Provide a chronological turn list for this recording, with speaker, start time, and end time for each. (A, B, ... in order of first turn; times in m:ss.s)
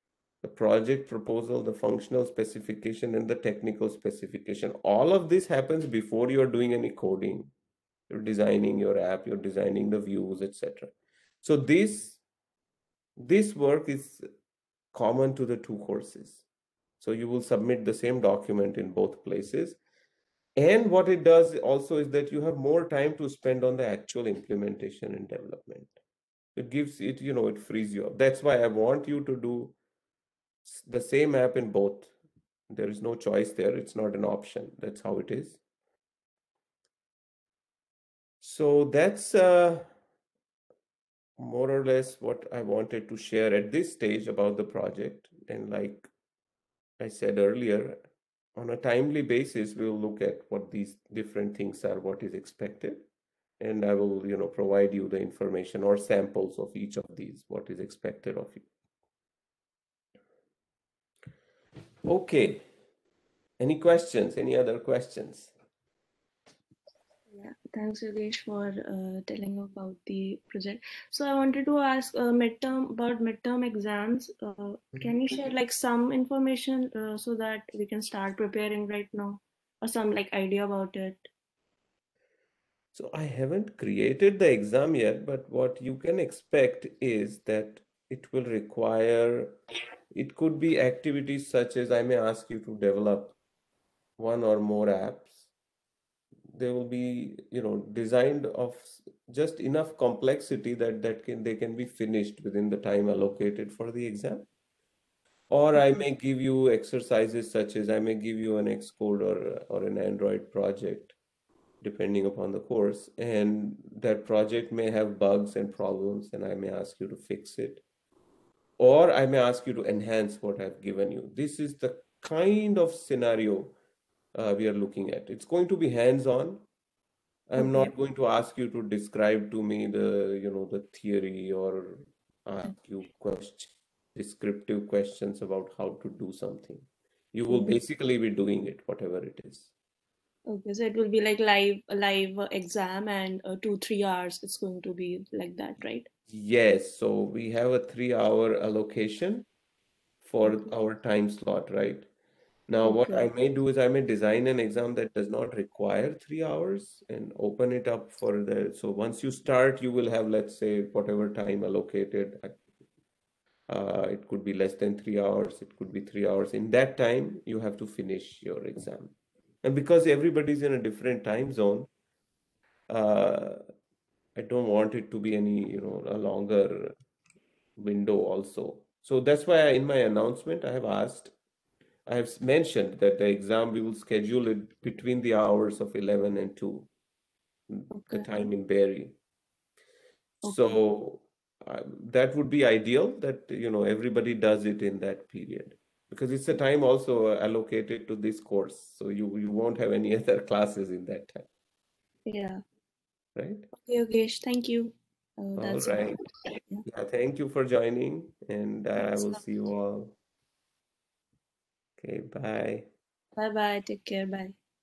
0:00.4-0:07.5 A
0:08.1-0:12.2 A
0:13.2-0:14.2 A
0:14.9-0:16.4 A
0:17.0-0:19.8 A
0:20.6-0:26.0 A
0:26.5-0:29.8 A
0:30.6-0:32.1 A
0:32.7-0:35.6 A
0:38.4-0:39.9 A
0:41.4-0:46.1 A
0:47.0-0:48.0 A
0:48.6-0:53.0 A
0:53.6-0:58.7 A
1:02.0-1:02.6 A
1:03.6-1:05.5 A
1:07.3-1:21.3 B
1:22.9-1:29.6 A
1:30.1-1:33.4 A
1:34.2-1:35.5 A
1:36.5-1:44.5 A
1:45.5-1:51.1 A
1:45.7-1:46.0 B
1:51.8-1:57.8 A
1:58.8-2:03.7 A
2:04.3-2:06.6 A
2:07.5-2:19.7 A
2:07.6-2:07.9 B
2:17.5-2:17.8 B
2:20.5-2:26.1 B
2:26.3-2:29.5 A
2:30.2-2:32.1 A
2:32.7-2:42.6 A
2:32.8-2:33.3 B
2:43.7-2:51.9 A
2:52.9-2:53.6 A
2:54.4-2:56.9 A
2:57.8-3:01.3 A
3:02.1-3:06.9 A
3:07.7-3:09.2 A
3:07.9-3:08.3 B
3:10.4-3:10.8 B
3:10.4-3:21.5 A
3:22.2-3:22.6 B
3:23.4-3:23.7 A
3:23.7-3:26.8 B
3:25.6-3:26.2 A
3:26.8-3:30.2 A
3:29.0-3:29.4 B
3:32.0-3:32.9 A
3:33.4-3:34.6 B